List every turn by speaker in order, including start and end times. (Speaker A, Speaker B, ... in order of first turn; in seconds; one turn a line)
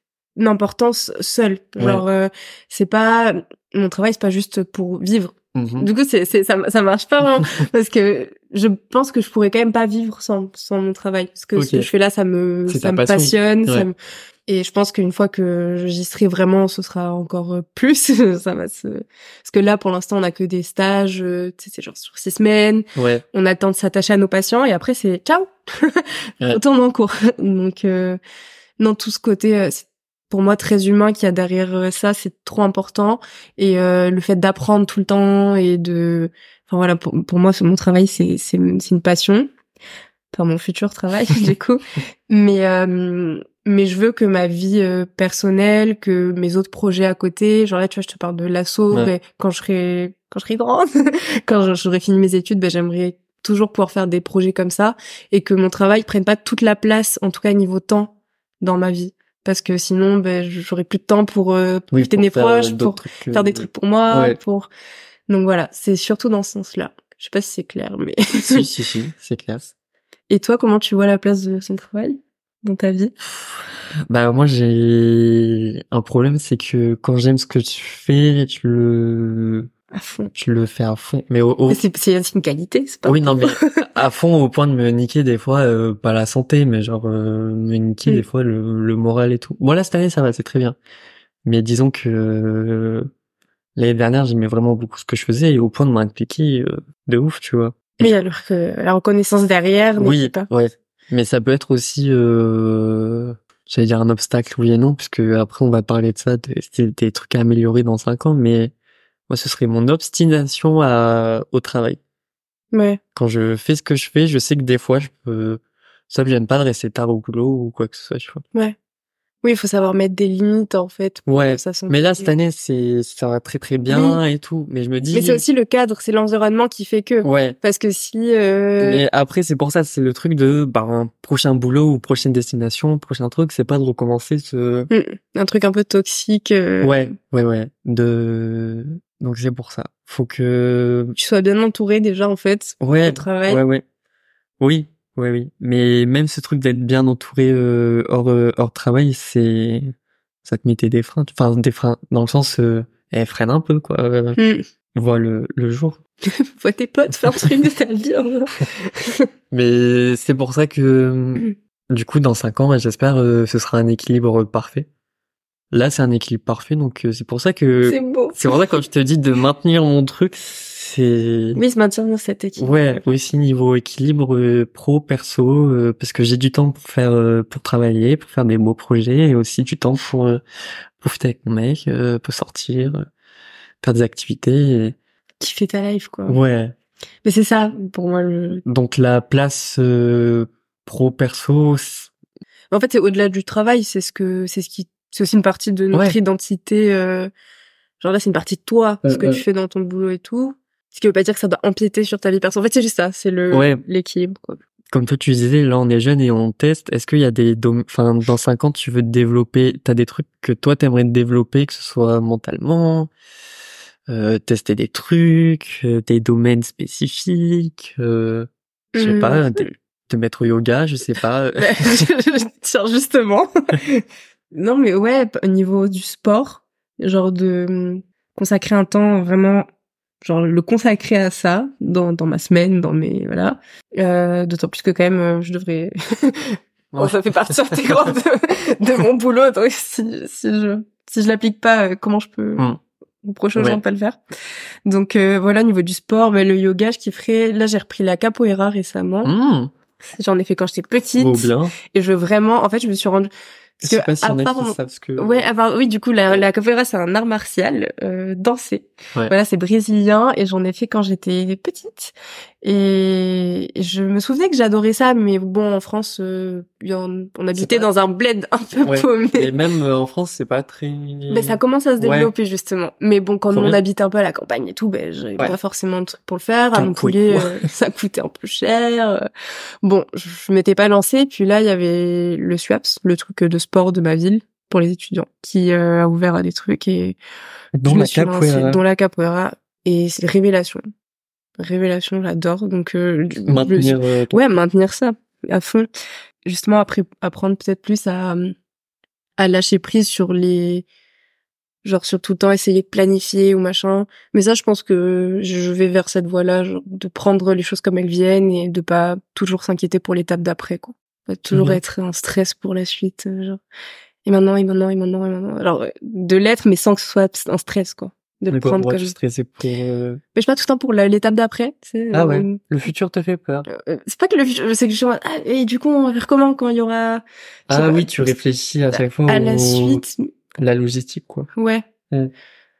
Speaker A: 0.4-13.9
Speaker B: 1.8-2.0
Speaker B: 5.5-5.9
Speaker B: 11.6-11.9
Speaker B: 12.7-13.9
Speaker A: 14.5-28.2
Speaker B: 22.9-23.2
Speaker A: 28.8-39.5
Speaker A: 40.3-64.7
Speaker B: 61.9-64.4
Speaker A: 65.3-68.7
Speaker B: 68.4-69.7
Speaker A: 70.3-73.1
Speaker B: 74.1-79.7
Speaker A: 79.9-80.3
Speaker B: 80.3-81.8
Speaker A: 81.7-83.8
Speaker B: 83.0-90.8
Speaker B: 91.4-93.1
Speaker B: 93.8-98.1
Speaker A: 98.0-100.5
Speaker B: 100.0-108.7
Speaker B: 109.3-112.0
Speaker A: 112.7-113.0
Speaker B: 113.1-118.4
Speaker A: 119.4-122.3
Speaker B: 121.3-125.4
Speaker A: 123.9-124.2
Speaker A: 125.1-129.0
Speaker B: 127.2-127.6
Speaker B: 128.8-134.9
Speaker A: 134.9-137.1
Speaker B: 136.8-141.1
Speaker A: 141.2-143.6
Speaker B: 142.8-143.8
Speaker B: 144.6-149.9
Speaker B: 150.4-154.4
Speaker A: 154.4-154.6
Speaker B: 154.9-156.0
Speaker A: 156.3-159.3
Speaker B: 159.5-164.9
Speaker B: 165.7-171.6
Speaker A: 167.8-168.6
Speaker A: 171.6-172.7
Speaker B: 172.6-180.4
Speaker B: 181.0-183.0
Speaker B: 183.8-185.0
Speaker A: 185.4-186.4
Speaker B: 186.3-186.7
Speaker A: 187.2-188.6
Speaker B: 188.6-192.1
Speaker A: 192.7-197.3
Speaker B: 195.9-196.2
Speaker A: 198.0-204.6
Speaker B: 199.0-199.4
Speaker B: 203.5-203.8
Speaker B: 204.9-213.1
Speaker B: 214.1-222.1
Speaker A: 218.9-219.7
Speaker A: 221.6-229.7
Speaker A: 230.2-242.6
Speaker B: 236.9-238.1
Speaker A: 243.2-244.2
Speaker A: 244.8-249.3
Speaker B: 249.2-249.7
Speaker A: 250.0-253.3
Speaker B: 251.2-251.7
Speaker B: 253.8-255.4
Speaker A: 253.8-269.5
Speaker B: 267.5-267.9
Speaker B: 268.8-272.3
Speaker A: 271.3-279.2
Speaker B: 273.5-273.8
Speaker B: 276.7-277.6
Speaker A: 279.8-287.2
Speaker B: 287.8-288.8
Speaker A: 287.9-290.8
Speaker A: 291.6-295.9
Speaker B: 293.4-294.4
Speaker A: 296.4-298.5
Speaker A: 299.4-300.9
Speaker A: 301.8-313.6
Speaker B: 311.5-311.8
Speaker A: 314.2-319.1
Speaker B: 318.5-320.2
Speaker A: 320.3-322.6
Speaker B: 322.1-323.7
Speaker A: 323.7-328.3
Speaker B: 327.7-330.0
Speaker A: 328.9-330.3
Speaker B: 330.6-331.5
Speaker A: 331.6-331.9